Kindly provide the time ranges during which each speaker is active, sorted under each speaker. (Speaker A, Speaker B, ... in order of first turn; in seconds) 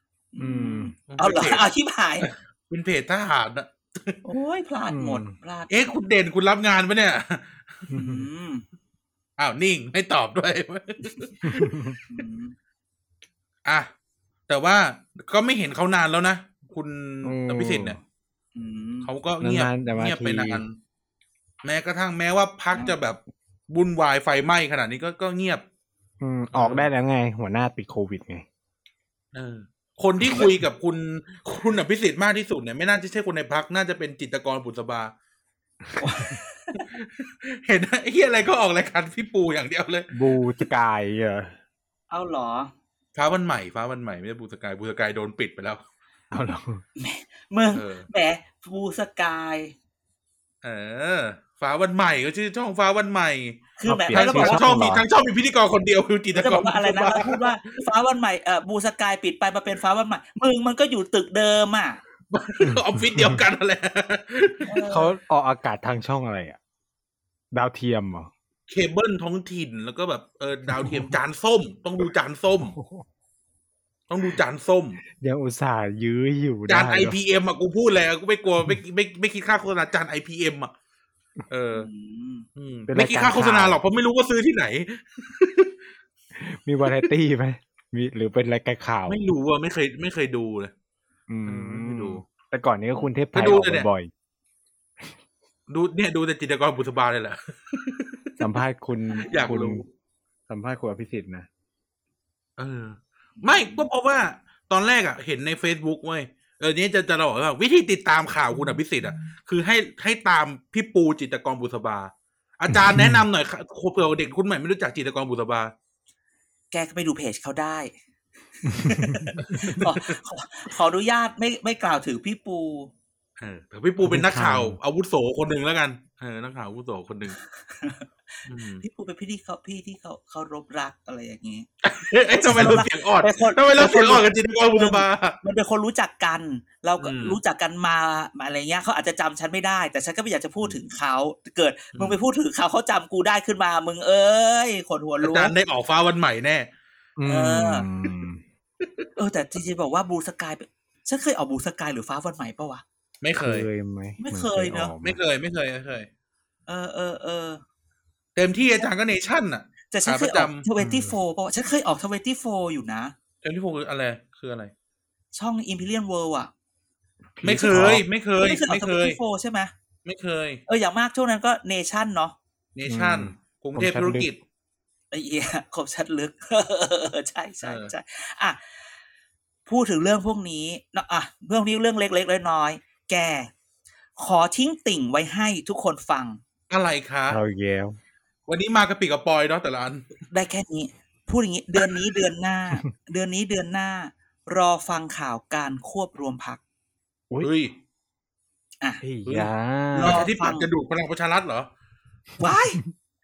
Speaker A: 0.3-2.3, 4.2-6.0, 7.9-8.6, 12.1-12.6, 18.5-19.1, 36.0-36.9, 42.1-42.7, 47.0-49.7, 53.8-54.6, 56.3-62.0, 64.7-65.1, 81.7-82.5, 99.1-99.5, 103.4-103.8, 116.7-117.9, 118.6-122.9, 127.7-131.7, 132.3-145.5, 147.2-147.8, 149.2-152.8, 154.2-154.9, 156.7-157.6, 159.9-163.1, 165.3-166.5, 167.7-169.7, 170.7-172.3, 175.1-178.6, 179.7-183.5, 184.2-186.4, 190.3-196.6, 199.9-200.7, 202.4-202.8
Speaker B: 0.4-0.9, 4.9-5.3, 7.9-8.2, 11.4-11.9, 17.2-18.0, 19.4-20.6, 26.2-28.4, 40.1-41.5, 46.3-46.8, 53.9-55.0, 62.6-63.4, 64.9-66.6, 67.5-68.3, 70.7-71.1, 72.6-73.0, 75.1-77.2, 82.9-83.8, 86.3-89.2, 91.3-94.1, 98.4-99.8, 100.5-101.5, 112.7-113.2, 118.8-119.2, 124.0-124.8, 147.2-148.4, 153.4-155.2, 160.8-161.1, 167.3-168.0, 172.9-174.3, 187.3-188.0, 199.0-200.2
Speaker C: 1.1-1.6, 2.2-4.2, 5.7-7.9, 9.4-12.0, 14.5-18.0, 19.0-20.8, 21.6-25.6, 26.5-26.9, 29.3-35.1, 36.8-40.1, 43.1-45.8, 47.7-48.1, 50.6-57.8, 62.3-64.7, 68.7-72.8, 74.1-75.0, 76.7-80.7, 81.5-81.9, 82.5-85.7, 89.1-90.7, 91.5-92.2, 93.3-93.9, 95.7-98.5, 99.3-99.9, 102.6-115.7, 119.4-120.2, 123.4-127.4, 128.4-128.8, 131.8-135.4, 137.0-137.4, 141.9-142.2, 145.2-146.7, 148.8-149.1, 153.2-153.7, 155.0-156.1, 158.3-160.7, 163.4-164.7, 167.4-169.2, 170.0-170.6, 172.7-174.4, 177.6-177.9, 186.7-187.4, 188.5-190.1, 197.4-197.7, 199.2-201.7